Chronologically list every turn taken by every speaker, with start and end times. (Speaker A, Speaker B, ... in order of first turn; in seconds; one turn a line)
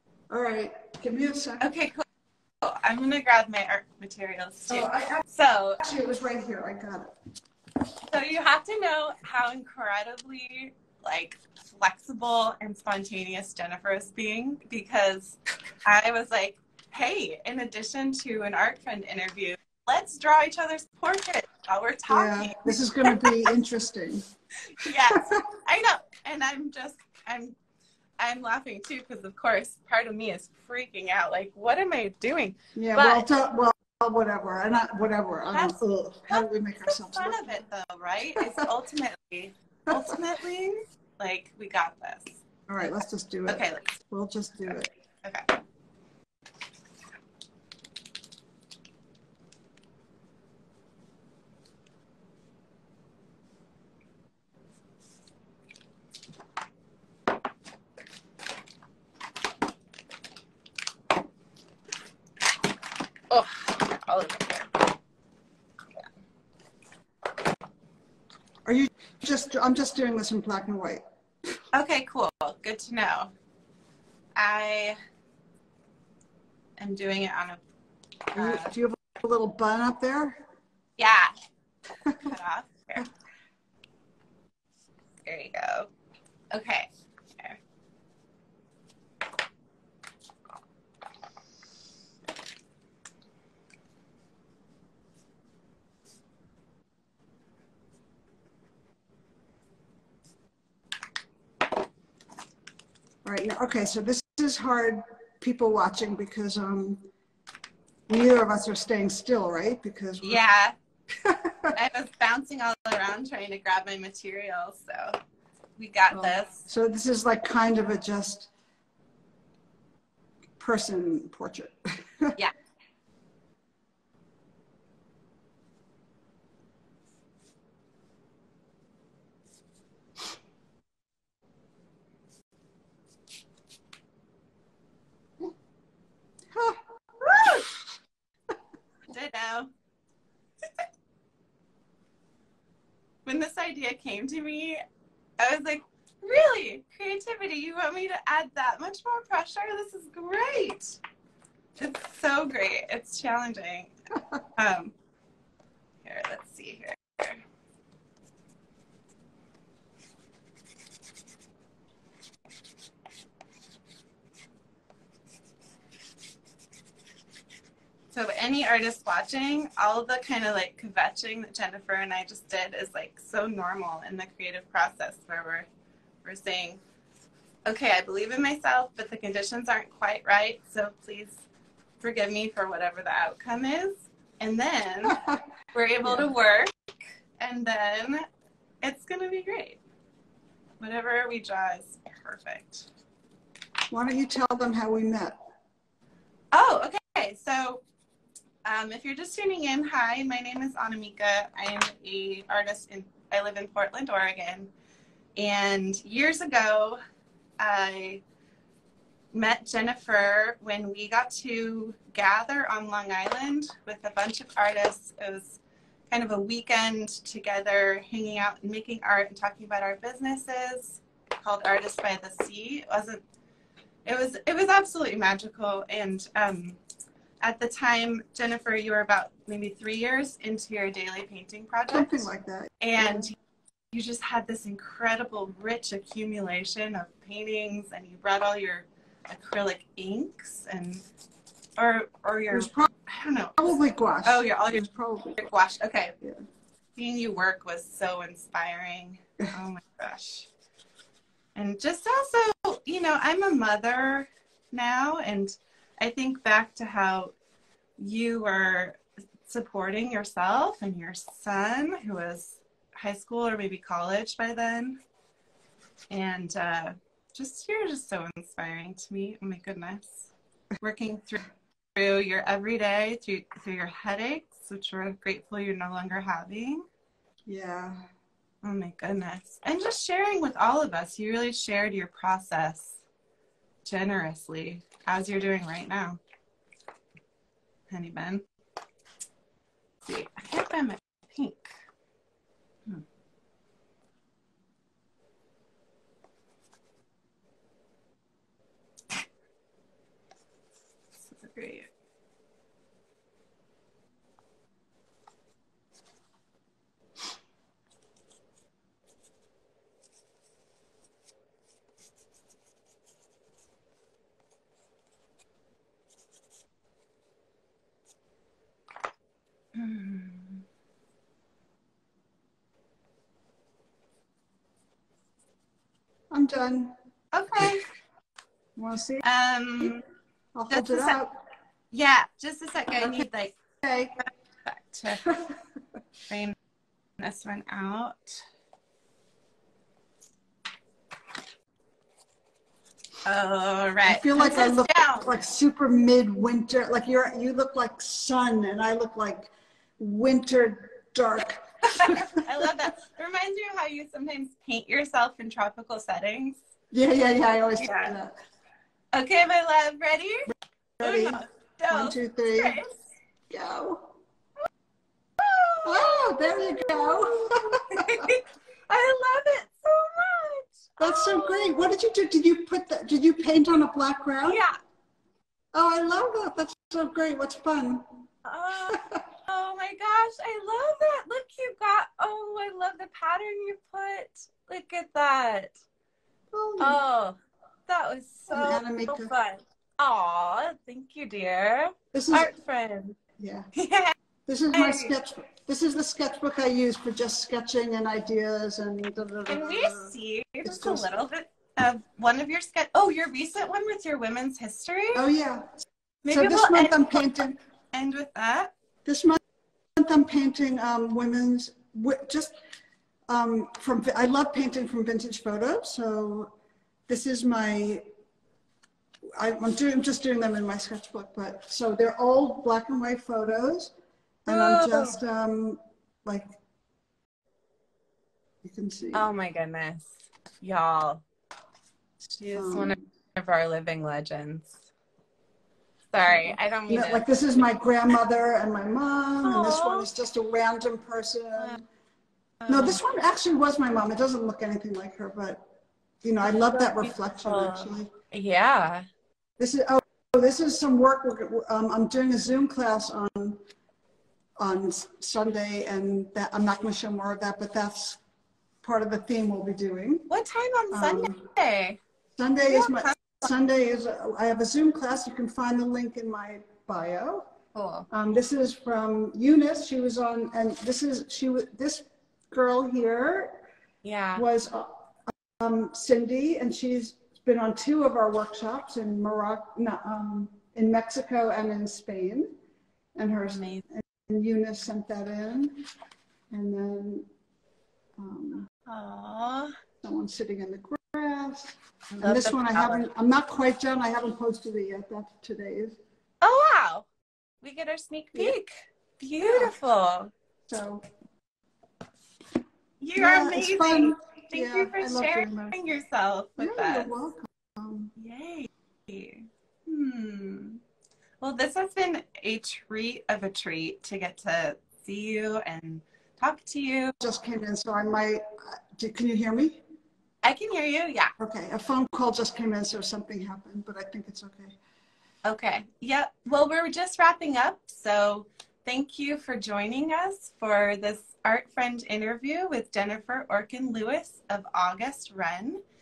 Speaker A: 0.3-1.7
Speaker B: 1.6-2.0
Speaker B: 2.6-5.8
Speaker A: 4.7-5.2
Speaker A: 5.8-7.1
Speaker B: 8.0-23.5
Speaker A: 22.1-24.3
Speaker B: 24.7-27.6
Speaker A: 24.8-25.4
Speaker B: 28.2-33.3
Speaker A: 32.8-37.6
Speaker B: 35.5-42.4
Speaker A: 42.7-44.9
Speaker B: 43.5-43.9
Speaker B: 45.2-45.5
Speaker B: 63.3-64.7
Speaker A: 68.7-71.0
Speaker B: 71.7-73.3
Speaker B: 74.4-75.0
Speaker B: 76.8-77.6
Speaker B: 78.3-78.7
Speaker A: 78.3-80.4
Speaker B: 81.0-81.3
Speaker B: 82.1-83.1
Speaker B: 85.2-85.9
Speaker B: 86.5-87.6
Speaker A: 103.2-107.0
Speaker A: 108.1-110.4
Speaker B: 110.2-110.8
Speaker A: 111.1-111.8
Speaker B: 111.7-115.2
Speaker B: 115.8-116.6
Speaker A: 116.1-118.5
Speaker A: 120.6-122.4
Speaker A: 136.5-137.7
Speaker B: 139.1-139.7
Speaker B: 143.3-144.8
Speaker B: 145.4-151.0
Speaker B: 151.8-153.9
Speaker B: 154.6-154.9
Speaker B: 156.1-157.4
Speaker B: 168.1-175.7
Speaker B: 176.2-176.8
Speaker B: 177.7-181.5
Speaker B: 182.0-185.2
Speaker A: 185.1-185.4
Speaker B: 185.7-188.3
Speaker B: 188.8-189.8
Speaker B: 190.8-192.9
Speaker A: 193.9-195.4
Speaker B: 196.5-197.8
Speaker B: 198.6-204.7
Speaker B: 205.4-207.0
Speaker B: 207.6-208.2
Speaker B: 209.3-223.2
Speaker B: 224.1-226.8
Speaker B: 227.4-232.3
Speaker A: 231.9-233.3
Speaker B: 232.8-233.3
Speaker B: 233.9-241.1
Speaker B: 241.8-244.8
Speaker A: 242.5-242.9
Speaker A: 243.6-245.5
Speaker B: 245.4-246.2
Speaker B: 247.0-250.5
Speaker B: 251.6-257.3
Speaker B: 258.0-265.0
Speaker B: 266.1-271.4
Speaker B: 271.9-276.9
Speaker A: 277.5-278.1
Speaker B: 278.6-283.0
Speaker B: 283.9-286.2
Speaker B: 287.9-288.4
Speaker B: 290.0-291.7
Speaker B: 301.3-301.9
Speaker B: 319.7-320.6
Speaker A: 326.3-326.9
Speaker B: 327.3-327.9
Speaker A: 328.8-329.2
Speaker B: 329.2-330.0
Speaker A: 330.6-331.4
Speaker B: 330.7-331.2
Speaker B: 331.9-333.6
Speaker A: 333.0-333.3
Speaker A: 333.8-334.1
Speaker B: 334.2-335.3
Speaker A: 335.3-335.6
Speaker B: 336.3-336.6
Speaker B: 337.2-338.4
Speaker B: 343.2-345.3
Speaker A: 344.1-352.7
Speaker B: 351.9-356.6
Speaker A: 356.9-358.4
Speaker B: 357.8-358.2
Speaker B: 359.1-363.0
Speaker A: 361.0-362.8
Speaker A: 363.5-364.1
Speaker B: 365.4-371.9
Speaker A: 365.8-368.3
Speaker A: 371.0-374.6
Speaker B: 374.5-374.8
Speaker A: 375.7-378.1
Speaker B: 378.4-385.8
Speaker A: 378.9-379.2
Speaker A: 386.5-387.0
Speaker B: 386.8-393.2
Speaker A: 388.5-389.3
Speaker A: 392.1-392.6
Speaker A: 393.4-393.7
Speaker B: 393.7-394.1
Speaker A: 394.5-400.1
Speaker B: 394.7-395.1
Speaker B: 399.5-405.3
Speaker A: 400.6-401.1
Speaker A: 405.1-407.6
Speaker B: 406.2-408.7
Speaker A: 409.1-409.4
Speaker A: 409.9-412.6
Speaker A: 413.3-416.5
Speaker A: 417.1-418.0
Speaker A: 419.4-423.9
Speaker A: 424.5-426.6
Speaker B: 424.5-425.2
Speaker A: 428.6-429.3
Speaker B: 429.1-431.2
Speaker B: 432.4-434.8
Speaker A: 432.5-433.0
Speaker B: 436.1-437.3
Speaker A: 436.2-441.8
Speaker B: 439.4-440.1
Speaker B: 442.6-443.0
Speaker A: 442.7-445.6
Speaker A: 446.2-448.1
Speaker B: 446.4-449.1
Speaker A: 449.6-453.6
Speaker A: 454.6-458.2
Speaker A: 458.8-460.3
Speaker B: 460.3-462.0
Speaker A: 460.9-461.4
Speaker A: 462.4-467.5
Speaker B: 462.7-463.4
Speaker B: 467.8-468.1
Speaker A: 468.1-473.7
Speaker B: 474.0-474.4
Speaker A: 474.4-482.5
Speaker A: 483.1-485.9
Speaker B: 483.5-483.8
Speaker A: 486.5-487.3
Speaker A: 488.2-488.7
Speaker B: 488.9-489.8
Speaker A: 490.0-496.0
Speaker B: 492.1-493.1
Speaker B: 496.4-497.1
Speaker B: 497.6-500.3
Speaker A: 499.4-499.7
Speaker A: 500.7-501.1
Speaker B: 503.0-507.1
Speaker A: 503.2-505.8
Speaker A: 506.6-508.1
Speaker B: 508.2-510.8
Speaker B: 511.4-517.1
Speaker A: 517.2-519.8
Speaker B: 520.4-521.3
Speaker A: 521.4-524.8
Speaker B: 525.5-535.8